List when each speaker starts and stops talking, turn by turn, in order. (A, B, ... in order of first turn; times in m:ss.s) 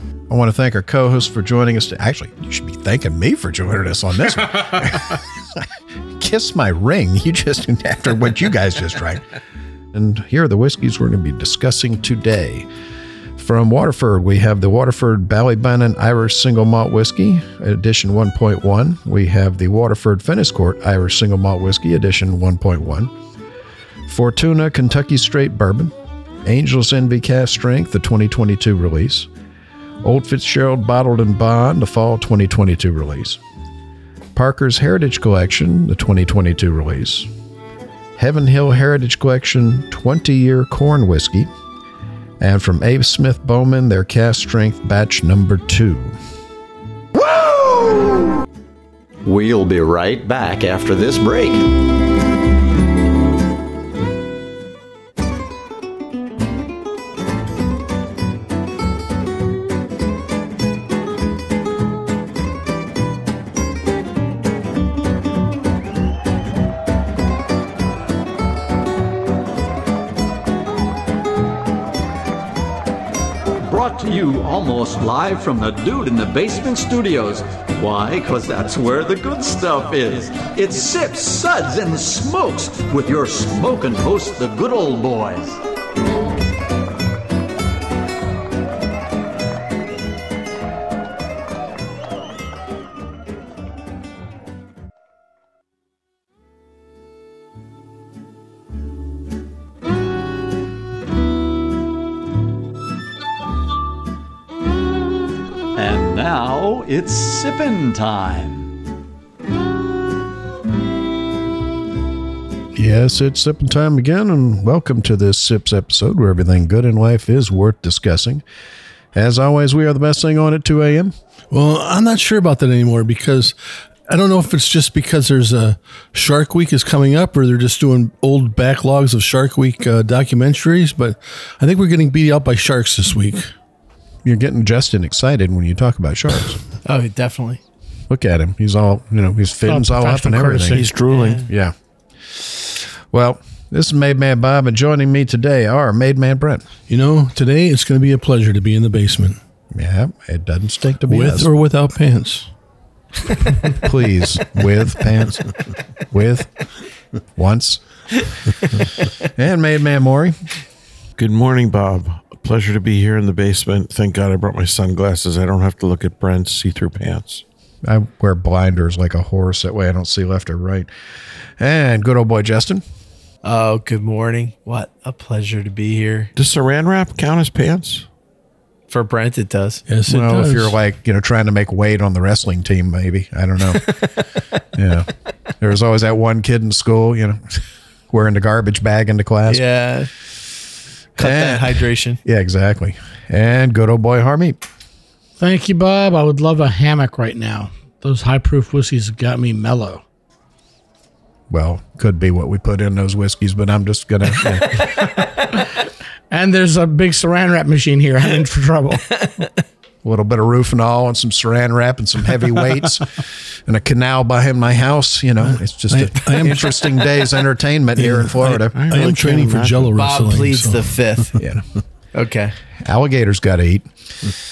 0:00.3-0:05.7 A
0:06.2-0:09.2 A
0:09.9-0:12.7 A
0:13.4-0:23.1 A
0:24.1-0:29.3 A
0:30.0-0:33.4 A
0:34.3-0:37.3 A
0:38.2-0:41.5 A
0:42.4-0:46.1 A
0:47.3-0:48.0 B
0:49.2-0:51.7 B
1:13.6-1:25.6 B
1:45.7-1:48.7 B
1:52.7-1:58.4 A
1:59.1-2:01.1 A
2:01.5-2:03.5 C
2:04.1-2:13.5 C
2:14.2-2:16.6 A
2:16.8-2:17.6 D
2:18.1-2:20.8 A
2:19.6-2:20.9 E
2:20.7-2:21.4 F
2:21.1-2:21.4 D
2:21.4-2:21.7 A
2:22.4-2:26.6 A
2:26.9-2:29.4 C
2:29.7-2:31.5 A
2:31.1-2:32.5 C
2:33.8-2:35.5 A
2:36.1-2:36.6 A
2:37.4-2:37.8 A
2:39.3-2:40.4 A
2:41.2-2:47.4 F
2:47.8-2:50.9 A
2:51.6-2:52.8 A
2:53.4-2:56.3 D
2:56.4-2:58.0 F
2:58.9-2:59.8 D
2:59.9-3:00.7 C
3:00.1-3:03.8 A
3:04.7-3:09.6 A
3:09.5-3:10.1 D
3:11.2-3:12.2 D
3:11.2-3:14.6 A
3:15.4-3:20.0 E
3:21.5-3:25.0 A
3:26.3-3:29.2 E
3:30.0-3:38.7 A
3:35.5-3:36.7 C
3:38.0-3:41.0 C
3:38.7-3:39.9 F
3:40.0-3:41.4 D
3:41.4-3:41.6 A
3:42.1-3:42.6 D
3:42.8-3:44.3 A